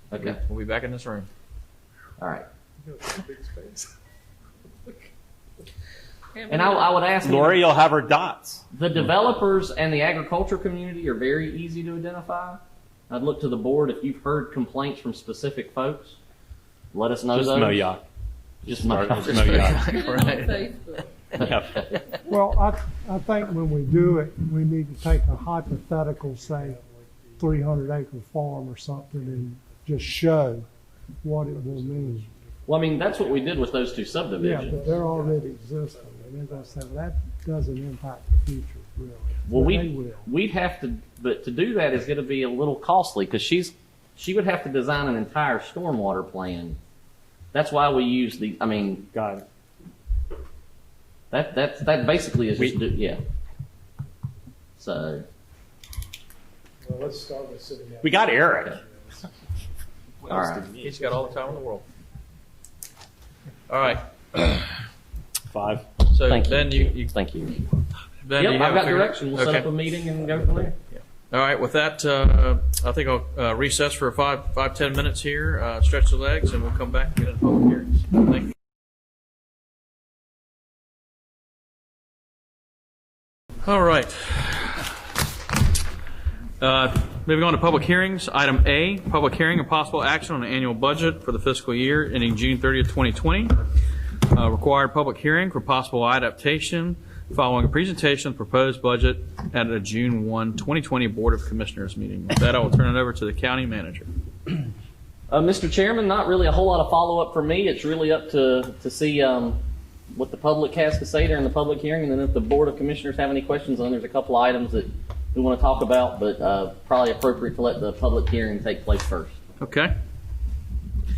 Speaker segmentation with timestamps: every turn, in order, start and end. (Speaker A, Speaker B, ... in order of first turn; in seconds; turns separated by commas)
Speaker A: 0.1-0.4, Speaker B: 0.2-1.3, Speaker A: 2.2-2.5, Speaker C: 2.8-3.9, Speaker D: 6.3-7.1, Speaker A: 6.5-7.6, Speaker E: 7.2-8.6, Speaker A: 8.7-16.2, Speaker A: 16.9-17.9, Speaker E: 17.3-18.0, Speaker E: 18.6-19.9, Speaker A: 18.7-19.7, Speaker B: 19.2-20.7, Speaker D: 19.9-21.1, Speaker E: 21.4-21.8, Speaker A: 21.4-21.9, Speaker F: 22.2-26.8, Speaker C: 26.3-27.9, Speaker F: 27.4-30.7, Speaker C: 28.9-29.9, Speaker F: 31.2-32.3, Speaker C: 31.4-37.0, Speaker A: 32.7-34.8, Speaker F: 34.4-40.3, Speaker A: 39.5-46.8, Speaker A: 47.5-49.1, Speaker E: 49.1-49.5, Speaker A: 51.3-53.2, Speaker A: 54.8-55.2, Speaker C: 56.8-59.2, Speaker E: 58.0-58.8, Speaker E: 60.2-61.0, Speaker A: 60.3-60.7, Speaker B: 60.8-61.8, Speaker C: 61.0-61.3, Speaker B: 63.7-64.0, Speaker E: 65.5-65.8, Speaker B: 66.1-67.1, Speaker A: 66.2-67.6, Speaker B: 68.2-69.7, Speaker A: 68.3-70.7, Speaker B: 71.3-78.5, Speaker B: 83.6-84.9, Speaker B: 86.6-93.6, Speaker B: 94.3-104.1, Speaker A: 105.3-109.6, Speaker A: 110.1-119.4, Speaker B: 119.6-119.9